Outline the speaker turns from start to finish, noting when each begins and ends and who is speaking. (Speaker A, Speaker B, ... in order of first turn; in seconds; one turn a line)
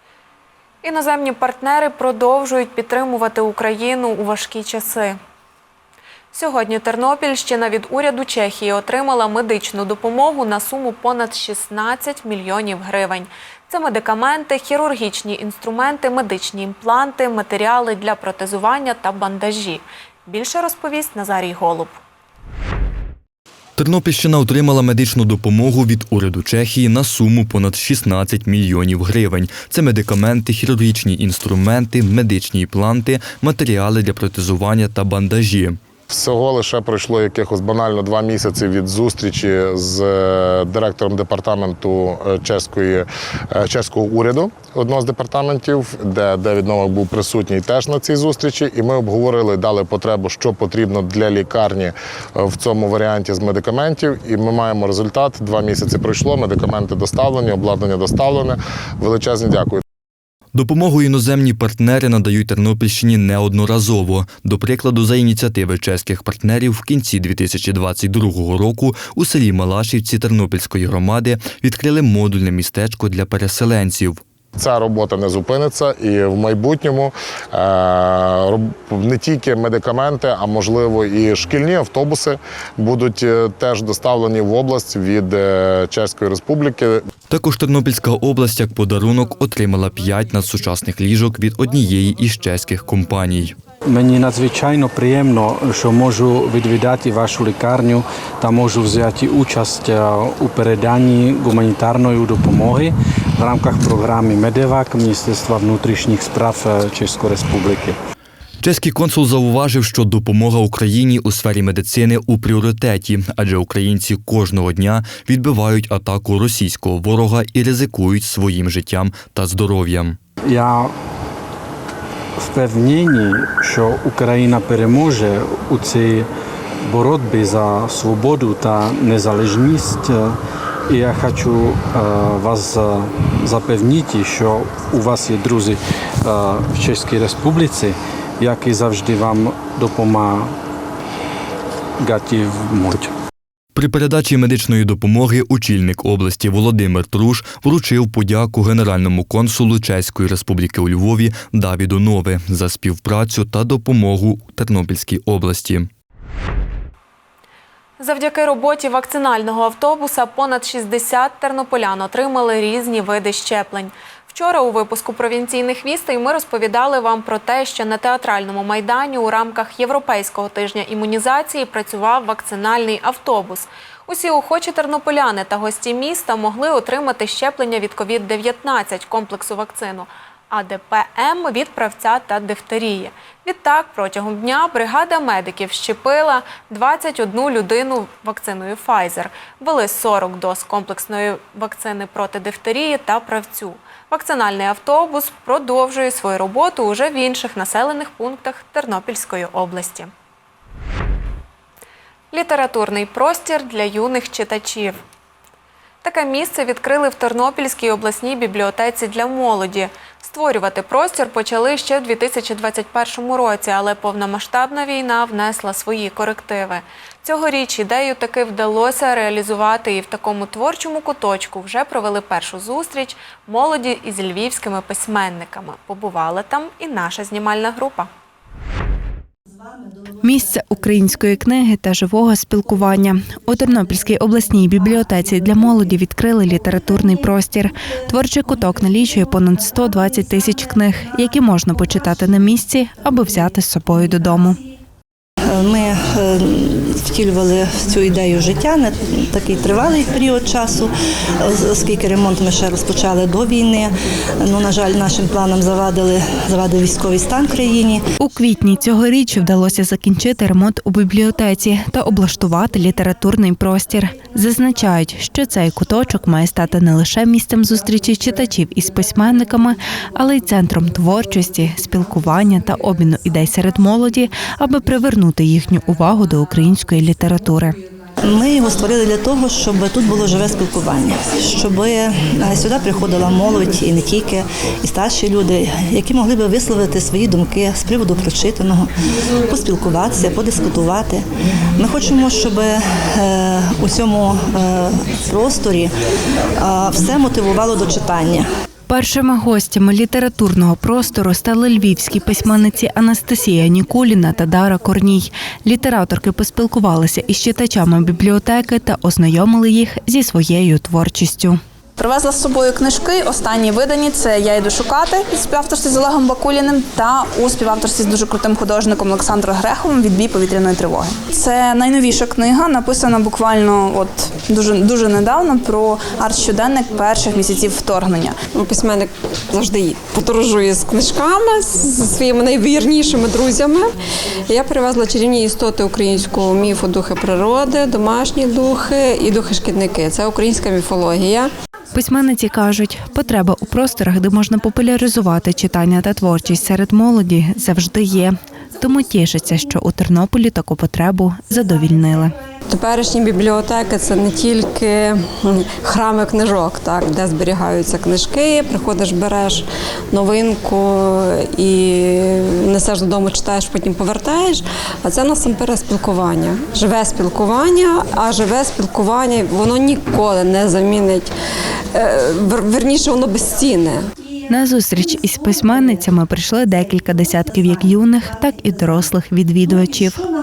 Speaker A: 0.8-5.2
Speaker A: 6.3-21.9
Speaker B: 23.8-35.8
Speaker C: 36.1-59.8
Speaker B: 60.5-74.2
Speaker C: 74.6-87.0
Speaker B: 87.3-93.5
Speaker D: 93.9-108.0
Speaker B: 108.6-120.2
Speaker D: 120.5-120.9
Speaker D: 122.4-126.3
Speaker D: 126.8-130.4
Speaker D: 130.9-140.5
Speaker D: 142.0-143.1
Speaker B: 143.7-155.9
Speaker A: 158.0-200.1
Speaker A: 202.3-205.0
Speaker A: 206.0-228.1
Speaker E: 230.2-244.6
Speaker F: 245.5-258.0
Speaker E: 258.2-277.8
Speaker F: 278.2-288.9
Speaker F: 289.4-295.9
Speaker F: 296.6-298.5
Speaker E: 298.9-311.6
Speaker G: 312.0-328.4
Speaker H: 328.5-333.9
Speaker H: 334.5-341.5
Speaker E: 341.9-352.4
Speaker H: 352.7-371.3
Speaker H: 371.9-374.0
Speaker E: 374.5-380.2